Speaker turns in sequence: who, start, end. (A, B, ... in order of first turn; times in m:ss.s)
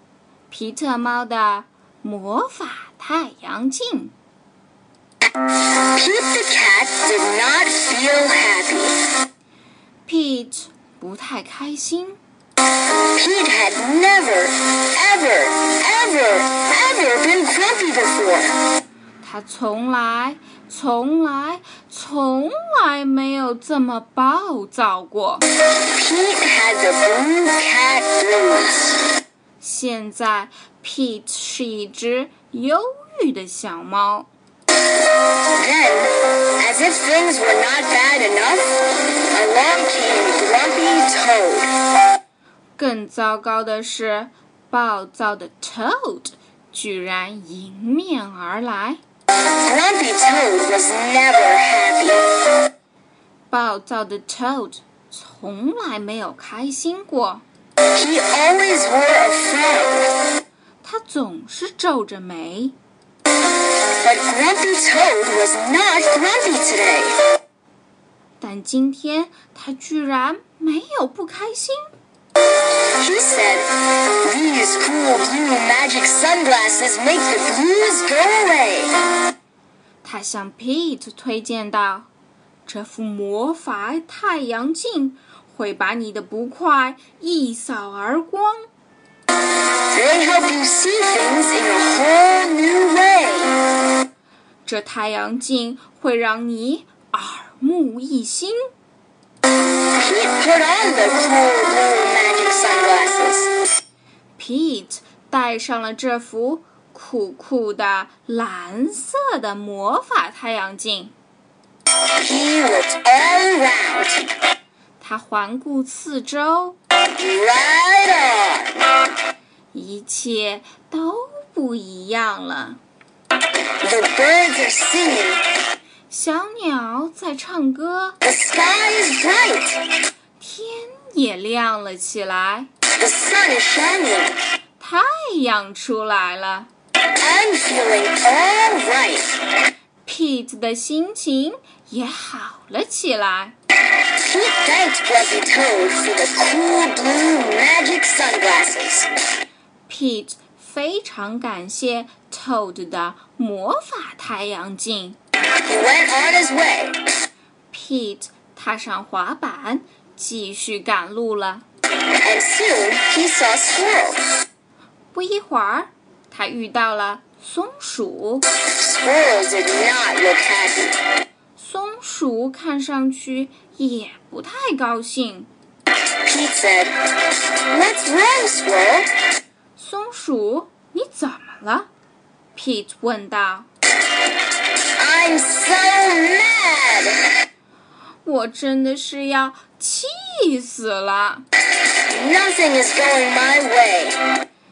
0:00.5-0:04.2 A
0:05.6-0:09.0 B
0:10.1-0:12.2 A
0:13.0-0:18.6 B
0:19.2-0:25.5 A
0:25.8-0:28.9 B
0:29.6-0:34.3 A
0:35.4-0:41.7 B
0:42.8-0:49.0 A
0:49.5-0:52.3 B
0:53.5-0:57.4 A
0:57.9-1:00.1 B
1:00.8-1:02.8 A
1:04.0-1:07.2 B
1:08.4-1:11.9 A
1:13.0-1:19.0 B
1:20.0-1:22.1 A
1:22.7-1:28.7 A
1:29.9-1:33.6 B
1:34.7-1:38.6 A
1:40.0-1:43.6 B
1:44.4-1:51.1 A
1:52.2-1:54.3 B
1:55.0-1:56.8 A
1:57.1-1:58.9 B
1:59.7-2:02.8 A
2:03.8-2:05.4 B
2:06.1-2:08.2 A
2:08.2-2:09.9 B
2:10.4-2:12.7 A
2:13.0-2:14.4 B
2:14.8-2:16.7 A
2:17.2-2:19.4 B
2:20.1-2:23.6 A
2:24.2-2:29.1 B
2:29.9-2:35.2 A
2:35.6-2:37.0 B
2:37.7-2:41.6 A
2:42.2-2:44.2 B
2:45.1-2:48.5 A
2:48.7-2:51.0 B
2:51.6-2:55.5 A
2:56.2-2:56.9 B
2:57.7-2:59.1 B
2:59.8-3:01.9 A
3:02.6-3:03.7 A
3:05.0-3:07.2 B
3:08.2-3:11.4 A
3:12.1-3:14.2 B